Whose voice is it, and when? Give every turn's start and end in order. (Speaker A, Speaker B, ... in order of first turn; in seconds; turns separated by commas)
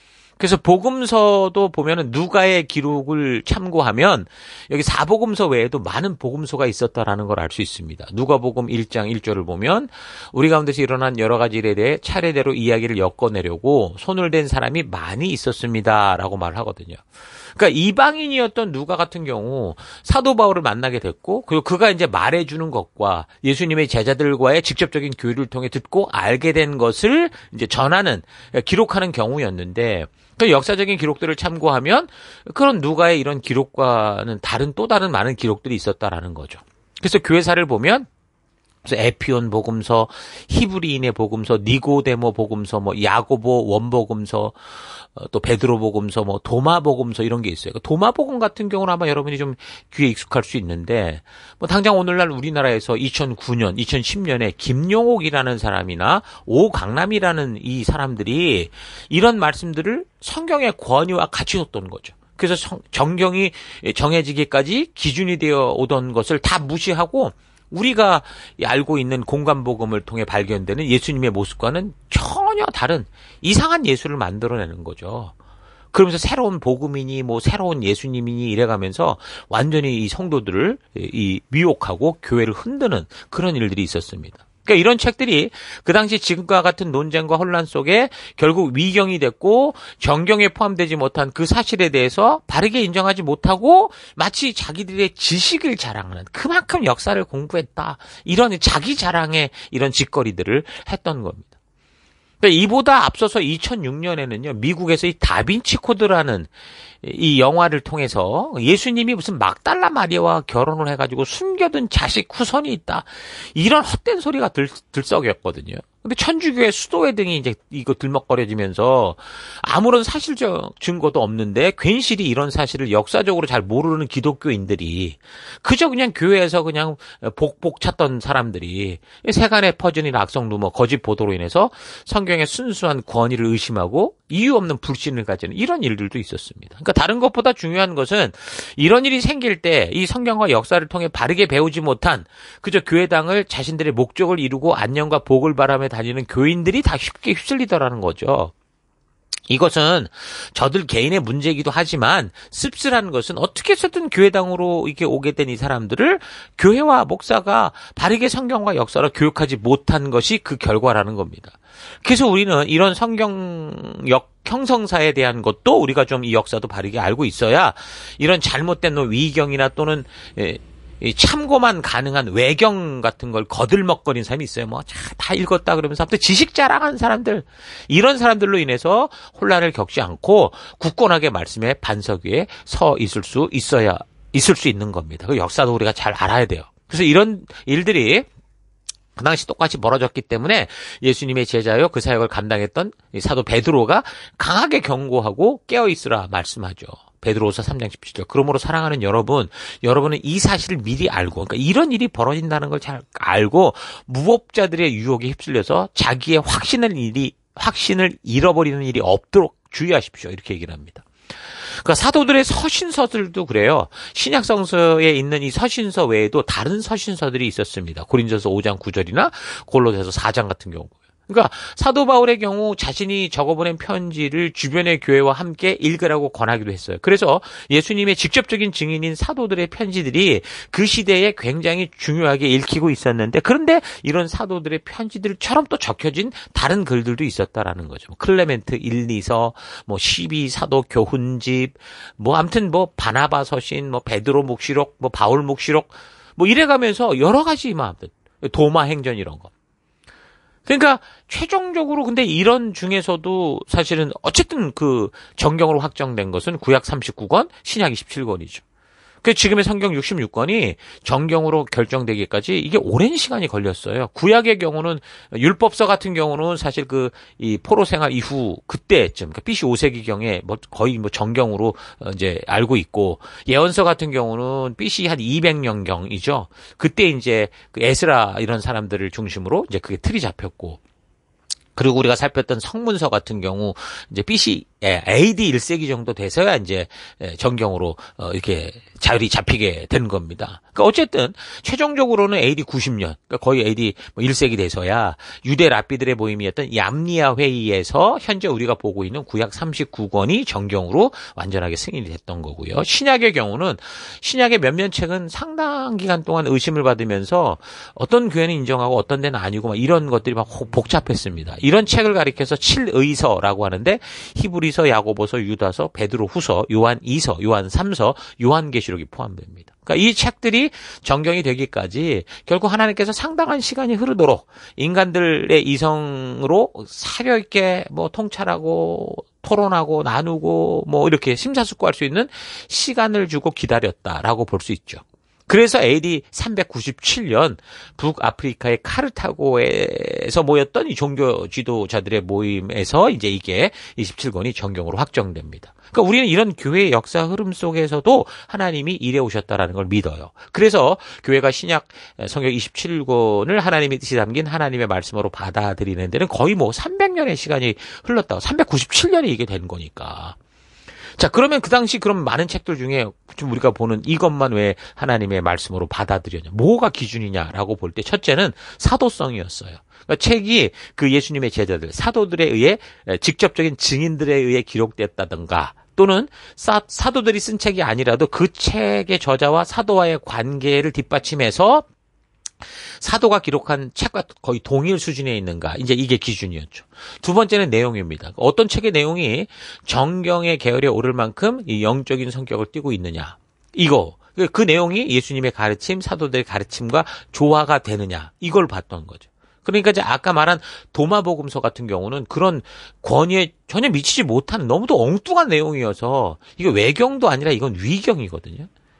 Speaker A: 0.4-17.0, Speaker A: 17.6-38.1, Speaker A: 38.8-44.5, Speaker A: 45.1-75.3, Speaker A: 75.9-101.5, Speaker A: 102.4-106.5, Speaker A: 107.0-148.5, Speaker A: 149.5-188.3, Speaker A: 189.2-211.0, Speaker A: 211.7-249.5, Speaker A: 250.7-258.6, Speaker A: 259.2-280.8, Speaker A: 281.8-360.4, Speaker A: 361.2-381.9, Speaker A: 383.0-408.7